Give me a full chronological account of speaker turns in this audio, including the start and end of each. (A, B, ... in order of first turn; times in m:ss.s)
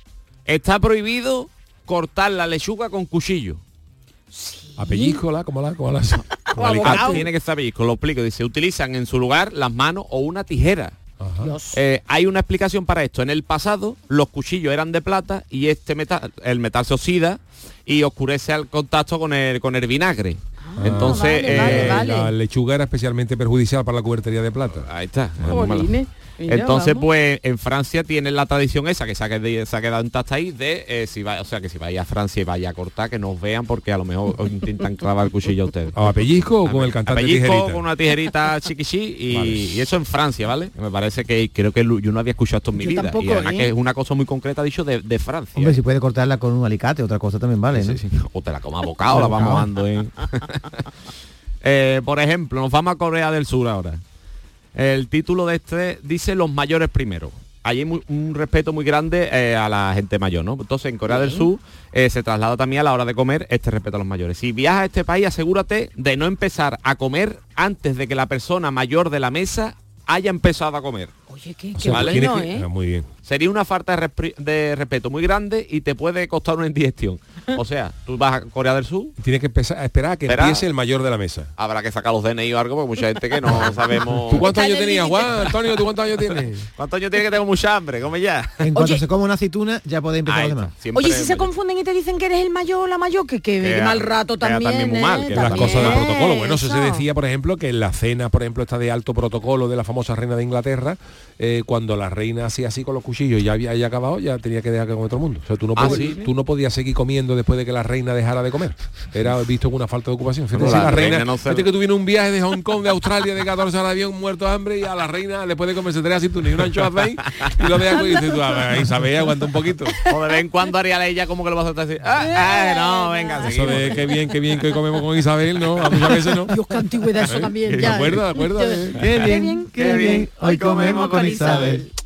0:00.4-0:03.6 A
0:04.3-0:05.2 B
0:04.8-0:07.3 C
0:06.5-0:07.2 B
0:06.8-0:10.9 A
0:11.2-0:11.5 C
0:11.4-0:11.8 B
0:11.7-0:22.1 A
0:20.6-0:22.3 B
0:20.8-0:24.9 C
0:24.8-0:25.9 A
0:25.4-0:27.1 B
0:26.5-0:45.8 A
0:35.9-0:37.8 C
0:39.3-0:39.6 C
0:42.8-0:43.7 B
0:45.6-0:48.0 D
0:47.7-0:50.7 A
0:49.1-0:49.7 D
0:51.6-0:54.0 A
0:54.7-1:11.1 A
1:01.1-1:01.5 B
1:11.3-1:12.7 B
1:11.8-1:13.1 C
1:11.9-1:12.2 A
1:13.2-1:19.1 A
1:19.2-1:21.5 C
1:20.2-1:20.6 A
1:21.6-1:24.5 A
1:23.5-1:26.7 C
1:24.3-1:25.6 B
1:26.3-1:28.7 A
1:28.6-1:30.7 D
1:28.7-1:29.0 B
1:30.2-1:31.5 A
1:30.9-1:37.0 B
1:33.6-1:36.1 A
1:35.3-2:00.0 C
1:45.8-1:46.2 A
1:45.8-1:46.3 B
1:50.5-1:51.7 A
1:57.9-1:58.9 B
2:00.1-2:04.2 A
2:02.2-2:04.2 B
2:03.4-2:06.5 C
2:05.8-2:06.4 A
2:06.5-2:11.9 B
2:07.2-2:09.0 C
2:07.6-2:08.3 A
2:08.9-2:11.8 D
2:09.8-2:11.7 A